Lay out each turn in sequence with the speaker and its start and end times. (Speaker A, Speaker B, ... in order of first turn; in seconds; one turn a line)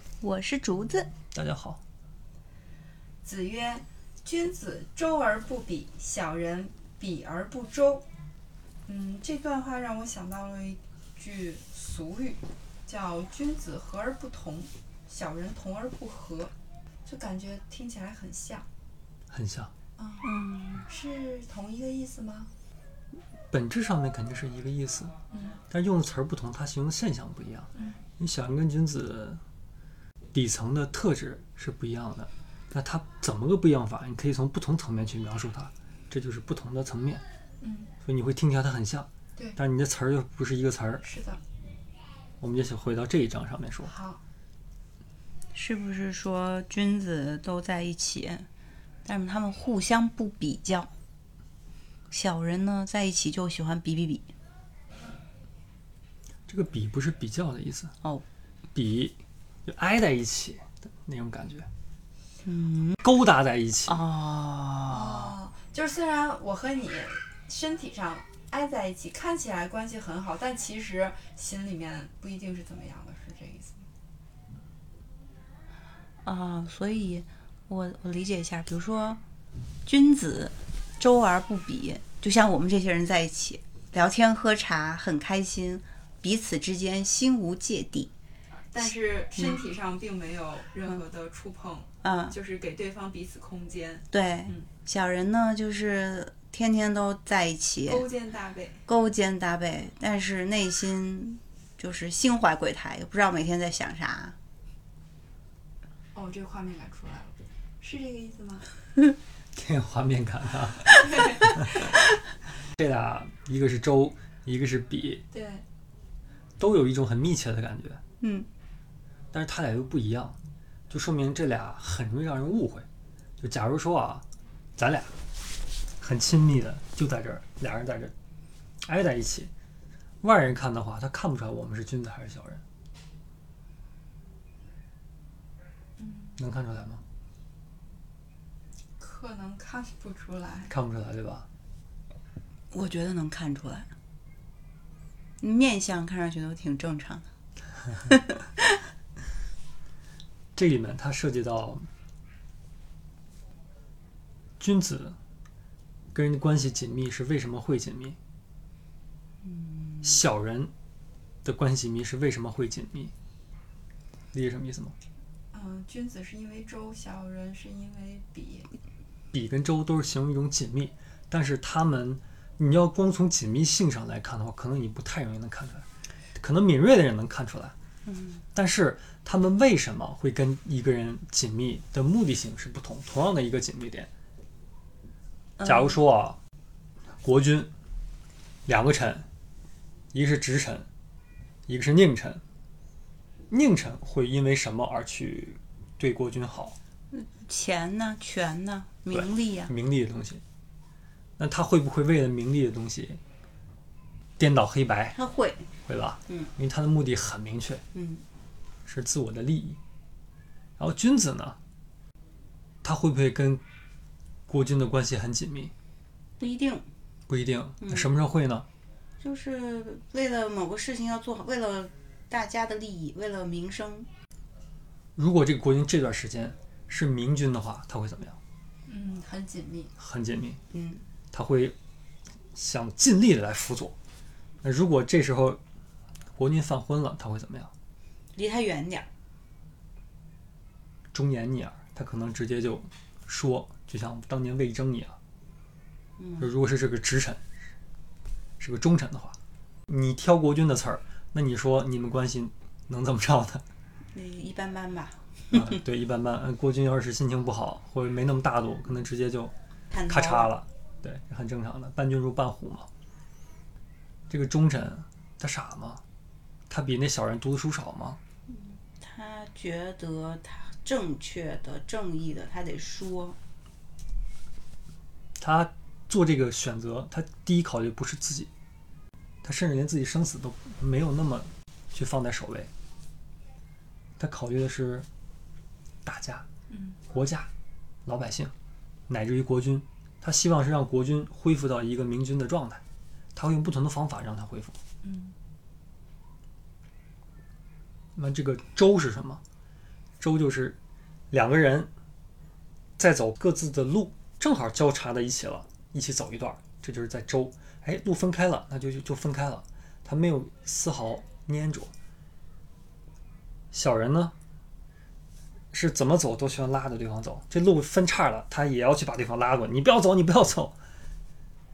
Speaker A: 0.2-1.1
Speaker B: 1.3-1.8
Speaker C: 3.2-8.1
Speaker C: 8.9-16.5
Speaker C: 17.1-18.7
Speaker B: 19.3-19.7
Speaker C: 20.0-20.3
Speaker A: 20.2-20.9
Speaker C: 20.9-22.5
Speaker B: 23.5-25.1
Speaker C: 25.3-25.6
Speaker B: 25.7-29.4
Speaker C: 27.8-28.0
Speaker B: 30.3-37.2
Speaker C: 37.6-37.9
Speaker B: 38.0-41.0
Speaker C: 41.0-41.4
Speaker B: 42.4-43.9
Speaker C: 43.8-44.2
Speaker A: 45.5-48.5
Speaker A: 49.0-50.9
Speaker A: 52.1-54.3
Speaker B: 56.5-58.0
Speaker B: 58.8-61.7
Speaker A: 62.4-63.0
Speaker B: 63.0-64.0
Speaker A: 63.9-65.3
Speaker C: 64.9-73.9
Speaker A: 76.2-79.2
Speaker A: 79.8-88.1
Speaker C: 88.7-94.7
Speaker A: 92.0-92.3
Speaker A: 94.1-98.1
Speaker C: 97.9-98.8
Speaker A: 98.9-104.4
Speaker C: 106.1-108.7
Speaker B: 109.5-111.9
Speaker B: 112.7-115.2
Speaker C: 115.3-115.6
Speaker B: 116.6-118.0
Speaker A: 118.2-118.5
Speaker B: 119.3-120.4
Speaker B: 120.9-122.9
Speaker B: 123.4-124.2
Speaker B: 124.8-125.1
Speaker B: 126.0-128.1
Speaker B: 128.8-129.5
Speaker B: 130.2-132.6
Speaker C: 136.0-136.4
Speaker B: 136.4-137.0
Speaker C: 139.0-140.7
Speaker B: 140.7-141.5
Speaker A: 142.7-143.9
Speaker A: 145.4-147.3
Speaker A: 148.1-148.4
Speaker B: 150.6-151.9
Speaker B: 154.6-155.2
Speaker B: 156.1-158.2
Speaker A: 159.5-160.2
Speaker B: 160.0-160.7
Speaker B: 161.4-163.1
Speaker B: 164.3-164.9
Speaker C: 165.5-168.7
Speaker B: 169.3-177.7
Speaker A: 178.1-178.4
Speaker B: 178.6-184.1
Speaker A: 185.6-186.0
Speaker B: 185.6-186.4
Speaker B: 187.2-187.7
Speaker B: 188.7-189.3
Speaker B: 190.1-190.9
Speaker B: 191.7-192.4
Speaker B: 193.5-196.8
Speaker A: 197.1-199.7
Speaker B: 199.1-200.4
Speaker B: 201.4-203.2
Speaker B: 204.4-205.2
Speaker A: 205.1-205.7
Speaker B: 205.9-207.8
Speaker A: 207.9-208.2
Speaker B: 208.9-209.8
Speaker B: 210.8-211.6
Speaker B: 212.8-213.6
Speaker B: 214.5-215.7
Speaker A: 216.4-216.9
Speaker B: 217.3-218.7
Speaker A: 217.8-218.1
Speaker A: 219.2-224.1
Speaker B: 225.2-228.4
Speaker C: 228.9-229.9
Speaker B: 230.0-230.6
Speaker A: 230.7-231.1
Speaker B: 231.3-231.8
Speaker B: 232.5-233.9
Speaker B: 234.6-235.6
Speaker B: 236.4-237.7
Speaker A: 238.3-239.1
Speaker B: 241.1-245.2
Speaker A: 246.2-246.5
Speaker B: 246.4-247.4
Speaker B: 248.6-249.4
Speaker B: 249.9-253.6
Speaker A: 254.1-255.8
Speaker B: 255.5-259.5
Speaker A: 259.9-260.5
Speaker B: 260.1-262.9
Speaker B: 264.3-266.0
Speaker B: 266.7-268.2
Speaker A: 268.5-273.4
Speaker B: 275.4-278.5
Speaker B: 279.4-282.7
Speaker B: 284.2-285.1
Speaker B: 286.1-286.5
Speaker C: 286.7-287.0
Speaker B: 287.1-287.5
Speaker B: 288.1-288.5
Speaker B: 289.1-292.8
Speaker B: 293.4-294.8
Speaker C: 295.0-295.3
Speaker B: 298.2-299.4
Speaker B: 300.2-300.8
Speaker B: 301.3-301.9
Speaker B: 303.0-311.9
Speaker B: 313.7-314.3
Speaker B: 315.7-320.8